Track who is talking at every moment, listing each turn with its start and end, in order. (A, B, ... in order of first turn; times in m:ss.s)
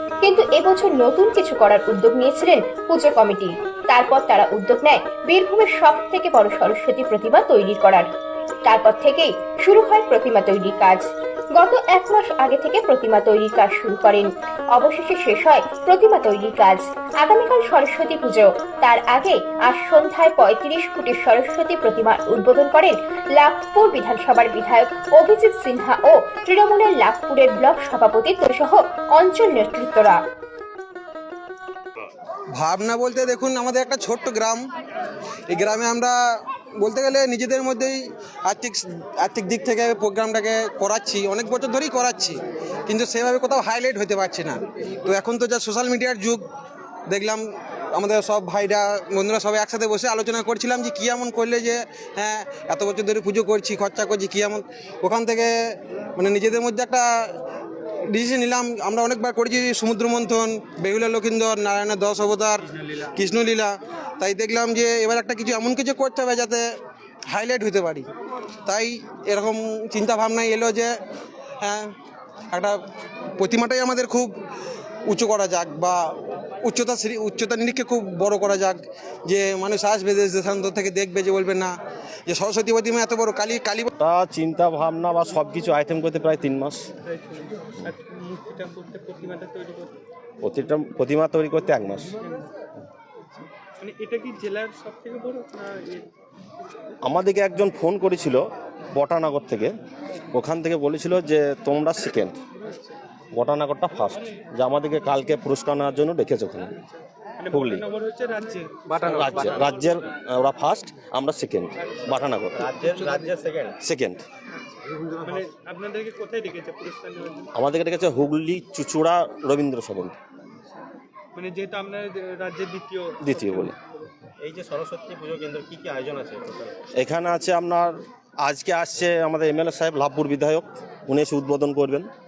0:00.2-0:08.1 A
0:08.6-0:30.2 A
0:32.6-0:34.6 B
0:35.5-0:36.2 B
0:36.8-0:46.5 B
0:47.1-0:55.5 B
0:56.2-0:57.3 B
0:58.1-1:06.7 B
1:07.3-1:08.1 B
1:08.7-1:11.0 B
1:11.6-1:11.9 B
1:12.5-1:12.8 B
1:13.4-1:14.4 B
1:15.1-1:21.7 B
1:22.3-1:23.9 B
1:24.0-1:26.9 C
1:27.0-1:30.0 D
1:30.4-1:32.2 C
1:33.8-1:36.1 D
1:37.0-1:38.4 C
1:39.0-1:39.7 C
1:40.3-1:42.4 C
1:43.3-1:46.8 C
1:47.4-1:49.5 D
1:47.5-1:47.8 C
1:49.0-1:52.7 C
1:52.6-1:53.8 E
1:53.8-1:54.2 C
1:55.2-1:57.5 D
1:57.5-2:00.2 C
2:01.4-2:04.0 D
2:03.2-2:03.8 C
2:04.4-2:06.8 E
2:07.0-2:12.1 C